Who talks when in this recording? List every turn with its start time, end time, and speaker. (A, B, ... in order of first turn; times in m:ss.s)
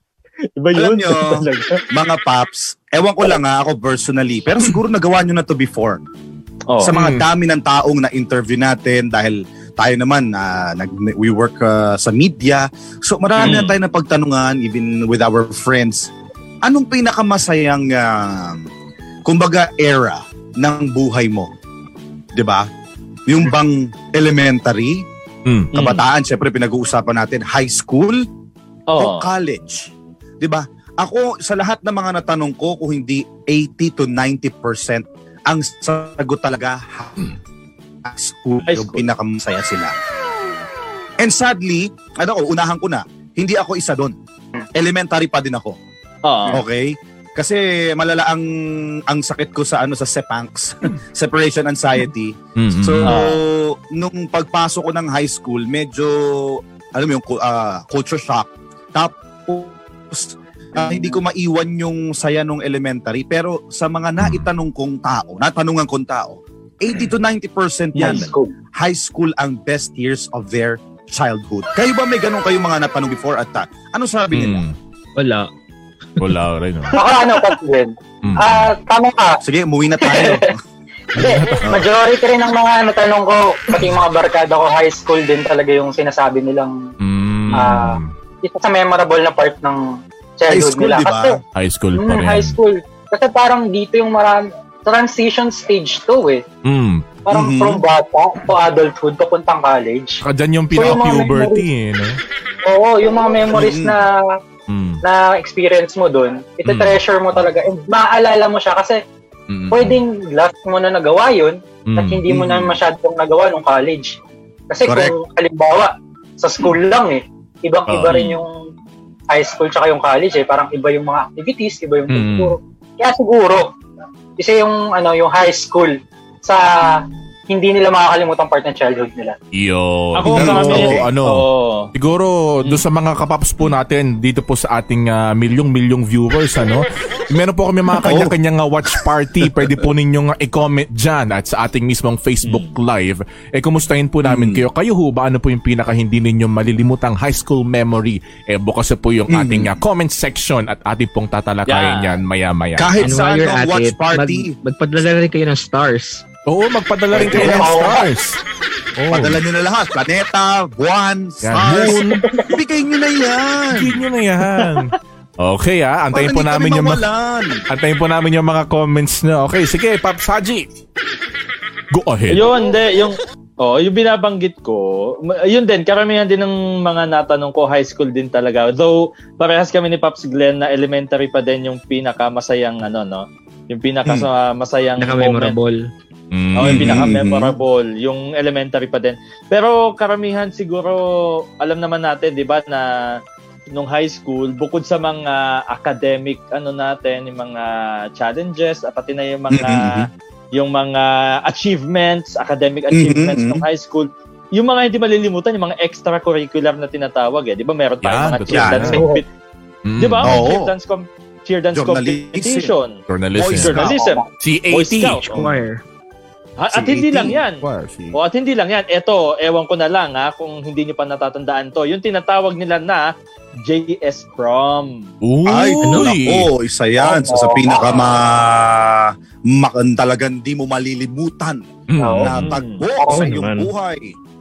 0:00.6-0:01.8 A
0:00.8-0:06.0 B
0:06.8-0:16.1 B
0:06.9-0:07.2 C
0:13.4-0:13.7 A
0:16.6-0:18.7 B
0:19.3-0:21.5 B
0:22.4-0:22.7 B
0:23.3-0:25.0 B
0:25.5-0:25.7 C
0:25.7-0:26.0 A
0:25.7-0:28.2 B
0:28.9-0:29.3 A
0:29.0-0:37.3 B
0:38.0-0:39.9 B
0:38.6-0:39.0 A
0:41.2-0:44.1 B
0:44.8-0:45.8 B
0:46.2-0:46.6 A
0:46.5-1:14.6 B
0:52.6-0:53.2 C
0:53.0-0:53.4 A
1:04.2-1:04.4 C
1:08.0-1:08.5 D
1:14.3-1:14.8 C
1:15.2-1:15.5 E
1:16.2-1:17.0 C
1:16.9-1:19.4 D
1:18.2-1:18.7 C
1:19.4-1:20.6 B
1:20.0-1:20.5 D
1:21.2-1:26.8 D
1:21.2-1:21.8 C
1:27.0-1:28.1 C
1:27.5-1:31.4 D
1:30.5-1:31.4 B
1:31.6-1:32.6 C
1:32.0-1:36.4 D
1:36.6-1:37.1 C
1:37.3-1:40.2 D
1:37.3-1:37.8 B
1:40.2-1:42.2 C
1:40.7-1:41.7 D
1:42.6-1:44.2 D
1:43.5-1:44.0 B
1:44.7-1:45.0 C
1:45.0-1:49.0 D
1:46.6-1:47.5 C
1:49.5-1:50.0 C
1:49.7-1:54.2 D
1:51.9-1:52.5 C
1:52.3-1:52.7 B
1:54.7-1:58.6 D
1:54.9-1:55.1 B
1:57.9-1:58.2 C
1:58.1-1:58.4 A
1:59.3-2:03.7 D
2:02.1-2:02.6 C
2:04.4-2:09.4 D
2:09.5-2:33.0 C
2:10.2-2:11.9 A
2:10.3-2:11.1 B
2:18.0-2:18.4 B
2:22.4-2:22.8 A
2:24.2-2:24.7 B
2:29.3-2:29.7 B
2:31.7-2:32.2 A
2:32.8-2:34.5 B
2:33.0-2:36.2 E
2:36.5-2:38.4 C
2:37.1-2:38.1 D
2:37.2-2:37.7 B
2:39.0-2:39.4 C
2:39.1-2:44.0 B
2:41.4-2:42.2 C
2:41.7-2:42.5 D
2:43.7-2:47.0 C
2:44.4-2:44.9 A
2:46.1-2:47.6 B
2:47.7-2:50.7 C
2:51.9-2:52.4 C
2:52.3-3:05.6 A
3:05.0-3:05.9 E
3:06.3-3:07.2 C
3:06.6-3:13.2 A
3:06.6-3:07.5 B
3:13.7-3:29.3 A
3:19.5-3:20.1 B
3:22.9-3:23.6 B
3:28.0-3:29.0 C
3:28.5-3:28.8 B
3:28.8-3:29.2 D
3:29.8-3:30.4 C
3:30.0-3:33.0 A
3:30.2-3:30.7 B
3:31.7-3:32.7 B
3:33.1-3:33.8 C
3:33.4-3:34.0 B
3:33.5-3:35.5 A
3:33.8-3:34.2 D
3:34.4-3:35.4 C
3:35.3-3:35.8 E
3:36.6-3:45.1 A
3:36.7-3:37.4 B
3:37.6-3:38.2 C
3:45.2-3:46.5 C
3:45.5-3:51.6 B
3:45.8-3:46.1 E
3:47.0-3:48.0 D
3:51.9-3:52.5 C
3:52.0-3:52.3 D
3:52.2-3:54.2 B
3:52.4-3:52.8 A
3:53.0-3:53.3 D
3:53.1-3:53.7 E